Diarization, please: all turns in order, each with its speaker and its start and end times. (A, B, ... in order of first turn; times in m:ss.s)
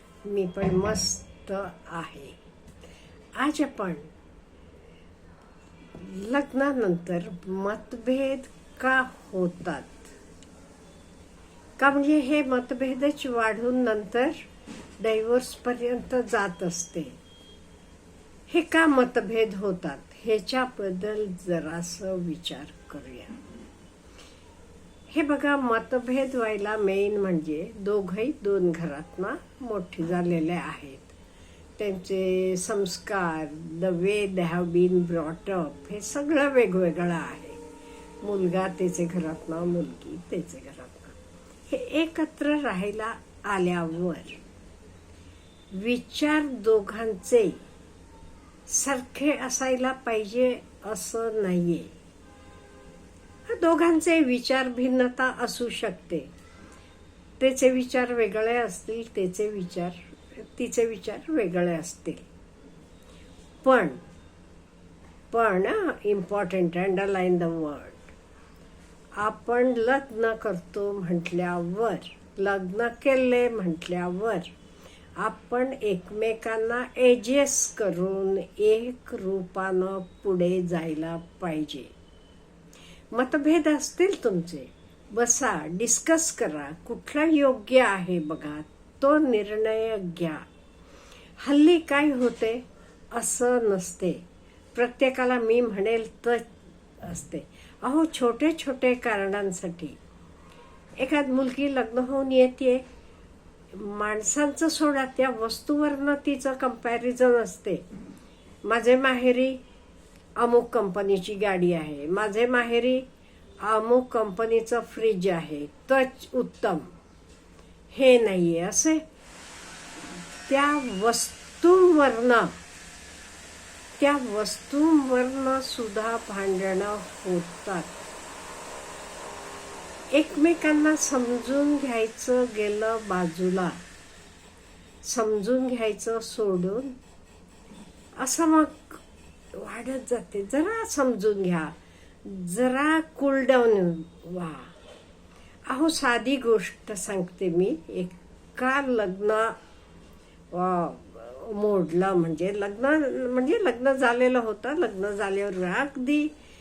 0:00.2-0:02.4 A
0:03.4-0:04.1 A
0:06.0-0:10.0 A
0:11.8-0:14.4 A
0:15.0-0:17.2 A
0:18.5-0:23.4 A
0:25.1-0:31.2 A
0:31.8-0:37.6 A
0:38.2-0:41.2 A
0:41.7-0:44.4 A
0:45.7-0:47.6 A
0:48.7-0:51.9 A
0:53.5-0:56.3 A
0:57.4-1:02.2 A
1:03.6-1:04.0 A
1:05.3-1:08.1 A
1:09.2-1:14.5 A
1:15.2-1:21.9 A
1:23.1-1:30.5 A
1:31.4-1:32.6 A
1:33.1-1:34.2 A
1:34.8-1:36.5 A
1:37.0-1:40.0 A
1:41.0-1:42.8 A
1:43.7-1:47.8 A
1:48.6-1:49.6 A
1:50.4-1:53.0 A
1:53.6-1:56.9 A
1:57.9-1:59.0 A
2:00.5-2:02.6 A
2:04.0-2:07.9 A
2:10.1-2:13.8 A
2:15.0-2:16.9 A
2:18.2-2:19.0 A
2:19.5-2:21.7 A
2:22.2-2:24.7 A
2:25.7-2:29.6 A
2:30.5-2:36.3 A